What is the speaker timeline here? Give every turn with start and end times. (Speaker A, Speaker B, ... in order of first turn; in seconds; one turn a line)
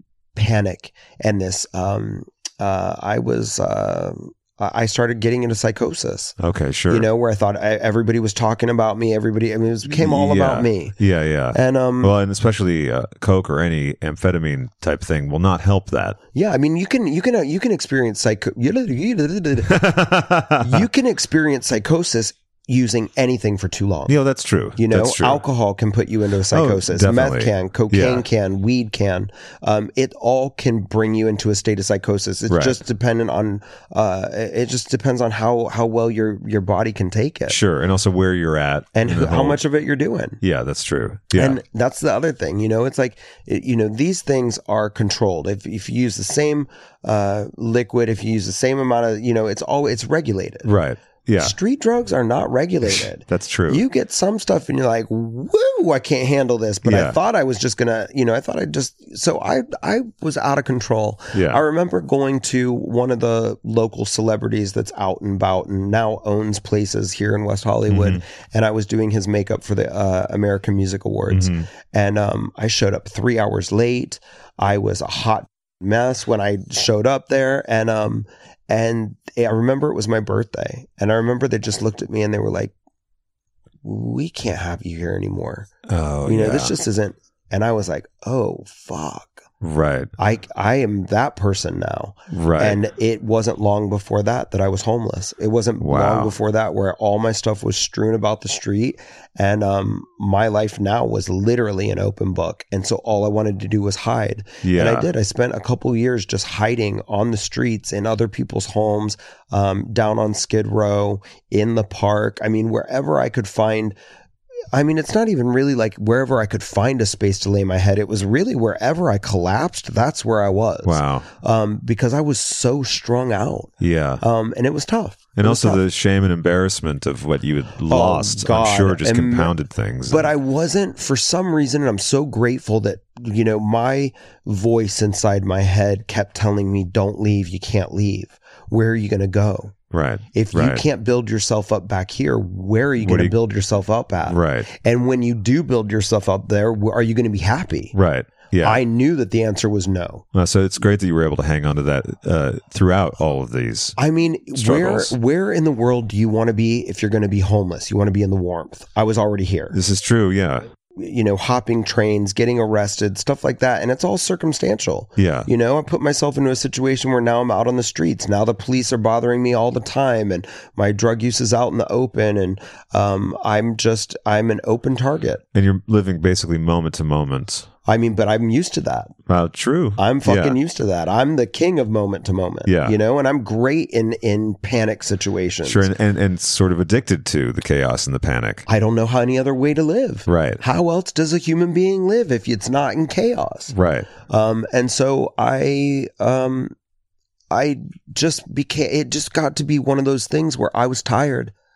Speaker A: 0.3-6.3
Speaker B: 6.4-7.1
Speaker A: 6.9-11.0
Speaker B: 9.8-16.2
Speaker A: 11.5-12.1
Speaker A: 16.3-19.9
Speaker B: 19.7-20.9
Speaker A: 20.6-24.1
Speaker B: 24.1-25.4
Speaker A: 24.8-37.6
Speaker B: 26.5-28.2
Speaker B: 32.5-32.8
Speaker B: 37.5-39.6
Speaker A: 38.9-40.4
Speaker B: 40.4-41.6
Speaker A: 41.3-50.7
Speaker B: 50.6-51.5
Speaker A: 51.4-82.7
Speaker B: 52.9-53.8
Speaker B: 56.8-57.1
Speaker B: 61.3-61.6
Speaker B: 67.9-68.2
Speaker B: 71.3-71.7
Speaker A: 83.8-85.7
Speaker B: 85.9-86.8
Speaker A: 86.2-89.4
Speaker B: 89.6-90.1
Speaker A: 90.2-114.0
Speaker B: 92.3-92.8
Speaker B: 95.8-96.3
Speaker B: 104.6-105.1
Speaker A: 114.7-125.8
Speaker B: 120.8-121.2
Speaker B: 123.8-124.2
Speaker B: 125.3-130.3
Speaker A: 127.9-129.5
Speaker A: 130.1-139.8
Speaker B: 139.9-140.8
Speaker A: 140.3-147.9
Speaker B: 143.0-143.3
Speaker B: 144.3-144.7
Speaker B: 147.9-148.8
Speaker A: 148.6-150.2
Speaker B: 150.3-153.9
Speaker A: 154.0-159.8
Speaker B: 154.5-155.1
Speaker B: 159.7-160.7
Speaker A: 160.9-175.4
Speaker B: 165.2-165.5
Speaker B: 175.5-177.7
Speaker A: 177.8-179.1
Speaker B: 179.3-180.6
Speaker A: 180.0-185.9
Speaker B: 182.7-182.9
Speaker B: 185.6-188.7
Speaker A: 188.7-196.7
Speaker B: 190.3-190.6
Speaker B: 193.7-194.1
Speaker A: 197.5-201.5